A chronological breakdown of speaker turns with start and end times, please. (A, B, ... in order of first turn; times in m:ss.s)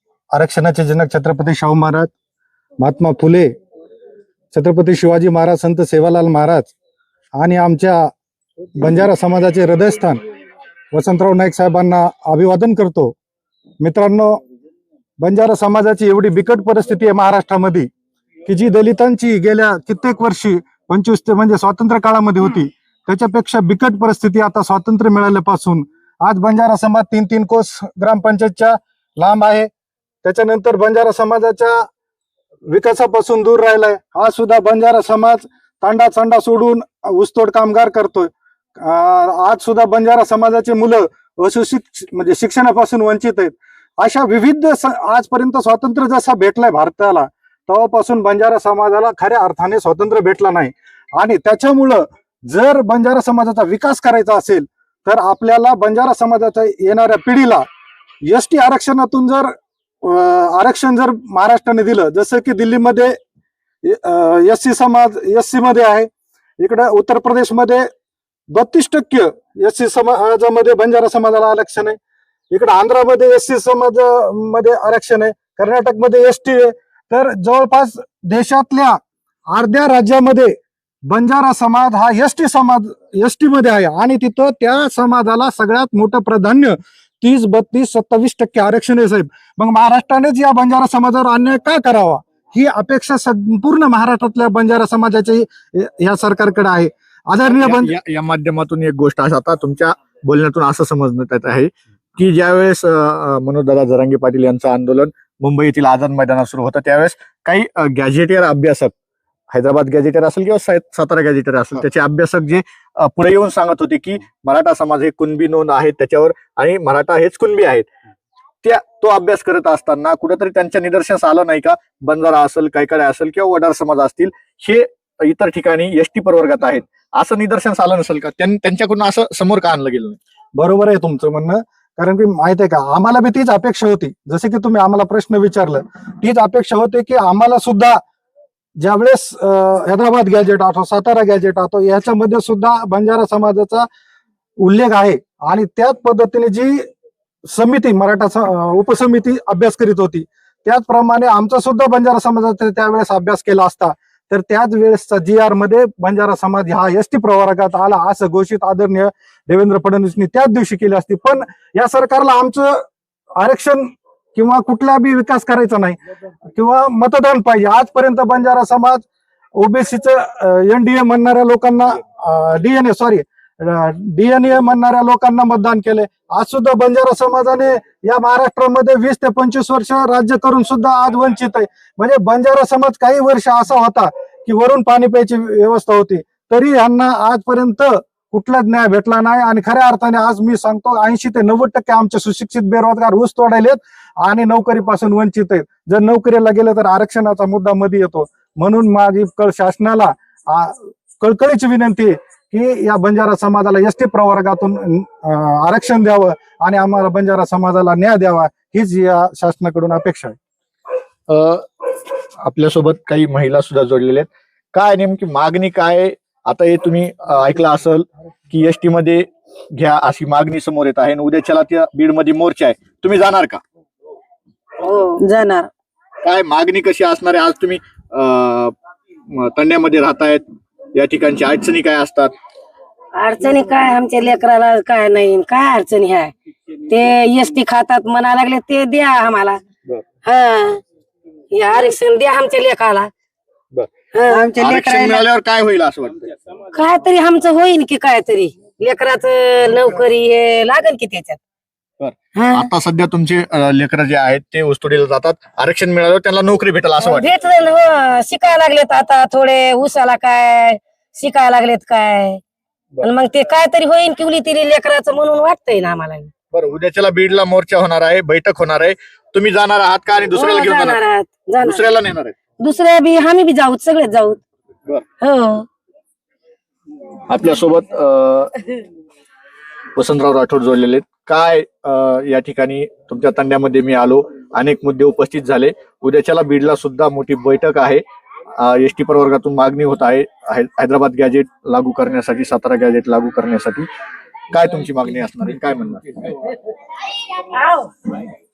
0:00.3-0:02.1 A
0:02.8-0:03.5 A
0:04.5-0:06.7 A
0:07.4-0:08.1 A
0:08.8-0:10.2 A
0:10.9-0:13.2 A
0:13.8-0:14.4 A
0:15.2-0:17.9 A
0:18.5-0:29.7 A
0:30.2-0:31.9 A
0:32.7-0:57.6 A
0:58.2-0:59.5 A
1:00.0-1:03.2 A
1:03.8-1:06.1 A
1:06.6-1:07.9 A
1:08.5-1:12.0 A
1:12.5-1:19.0 A
1:19.5-1:20.6 A
1:21.1-1:38.0 A
1:37.4-1:48.9 B
1:49.5-1:57.9 B
1:58.6-2:10.2 B
2:10.6-2:18.0 A
2:18.8-2:23.9 A
2:24.6-2:26.8 A
2:27.5-2:42.8 A
2:43.4-2:46.0 A
2:46.6-2:49.0 A
2:49.6-3:30.4 A
3:31.3-3:31.6 B
3:32.4-3:43.6 B
3:44.8-3:45.7 C
3:46.2-3:48.7 B
3:49.3-3:50.4 B
3:50.9-3:52.3 B
3:53.2-3:56.3 C
3:56.9-3:59.6 C
4:00.2-4:00.8 C
4:01.5-4:03.1 C
4:03.7-4:06.3 B
4:04.1-4:05.3 C
4:06.7-4:11.4 C
4:12.0-4:17.3 B
4:12.4-4:12.7 C
4:17.0-4:22.4 C
4:23.0-4:26.3 C
4:26.5-4:31.0 B
4:30.3-4:32.0 C
4:31.6-4:32.4 B
4:32.6-4:34.4 C
4:35.2-4:35.7 C
4:37.3-4:38.5 B
4:40.0-4:48.0 B
4:48.6-4:53.9 B
4:54.5-4:56.1 B
4:57.6-4:57.9 C